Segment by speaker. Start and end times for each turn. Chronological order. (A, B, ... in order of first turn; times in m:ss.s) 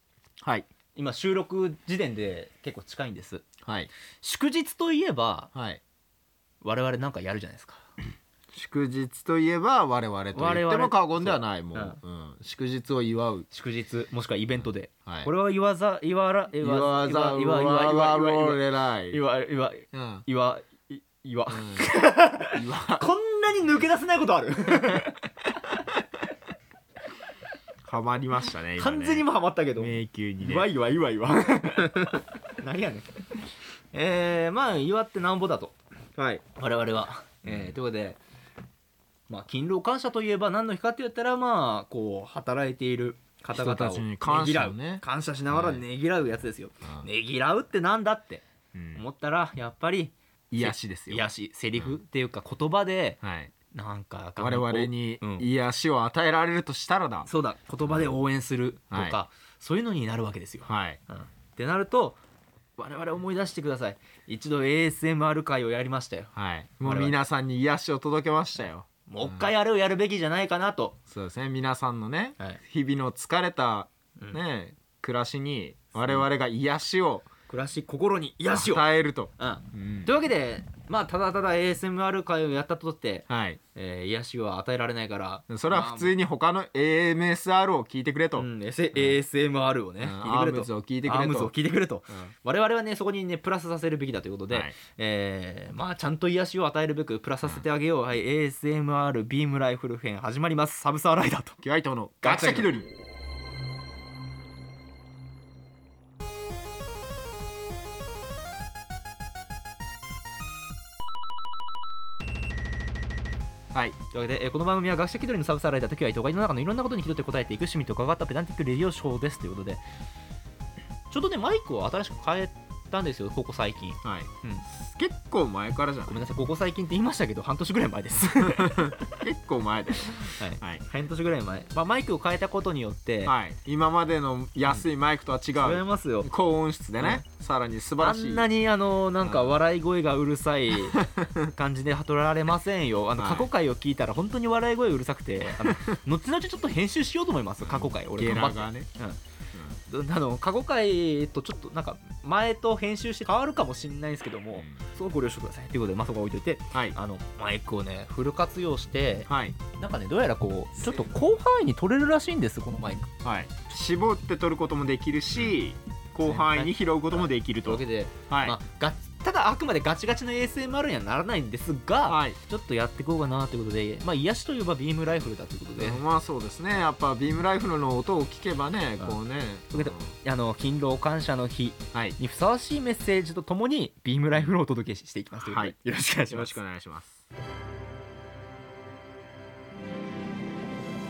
0:00.4-0:00.7 A
0:00.9-0:03.4 B
0:03.6-0:03.9 A
0:04.2-0:05.5 B
0:05.5-0:05.8 A
0:06.6-0:07.8 B
0:08.5-0:13.5 A
0:10.3-0:12.0 B
0:13.5-0:25.8 B
0:16.6-0:19.2 A
0:19.9-0:20.2 A
0:21.5-0:21.9 A
0:22.5-0:23.0 A
0:27.8-0:30.7 A
0:28.8-0:33.1 B
0:33.9-0:38.2 B
0:37.4-0:37.8 A
0:39.3-0:48.4 B
0:43.5-0:45.8 A
0:48.7-0:49.0 A
0:48.9-0:53.2 B
0:50.5-0:52.0 A
0:53.2-0:53.5 A
0:53.7-0:55.5 B
0:54.4-0:57.3 A
0:57.3-1:02.2 B
0:57.8-0:58.2 A
0:58.9-0:59.2 A
1:00.6-1:01.0 A
1:02.8-1:06.3 B
1:06.4-1:09.5 A
1:06.8-1:07.2 B
1:09.1-1:11.0 B
1:11.1-1:17.3 A
1:17.5-1:18.8 B
1:18.5-1:20.1 A
1:19.4-1:26.1 B
1:23.3-1:23.6 A
1:25.5-1:29.2 A
1:28.4-1:41.6 B
1:30.0-1:31.5 A
1:34.5-1:34.8 A
1:41.6-1:42.9 A
1:42.2-1:42.7 B
1:54.1-1:59.8 B
2:01.1-2:04.6 B
2:04.0-2:06.2 A
2:06.1-2:09.1 B
2:08.5-2:10.8 A
2:10.2-2:13.3 B
2:13.2-2:18.5 A
2:15.6-2:16.3 B
2:17.0-2:17.2 B
2:18.0-2:29.2 B
2:19.2-2:19.6 A
2:20.9-2:21.5 A
2:23.2-2:23.5 A
2:27.6-2:28.9 A
2:29.9-2:43.1 B
2:34.5-2:34.8 A
2:39.3-2:39.6 A
2:43.2-2:48.6 A
2:46.2-2:56.0 B
2:52.1-2:52.4 A
2:55.8-3:00.1 A
2:59.7-3:06.5 B
3:05.5-3:05.8 A
3:06.3-3:07.2 A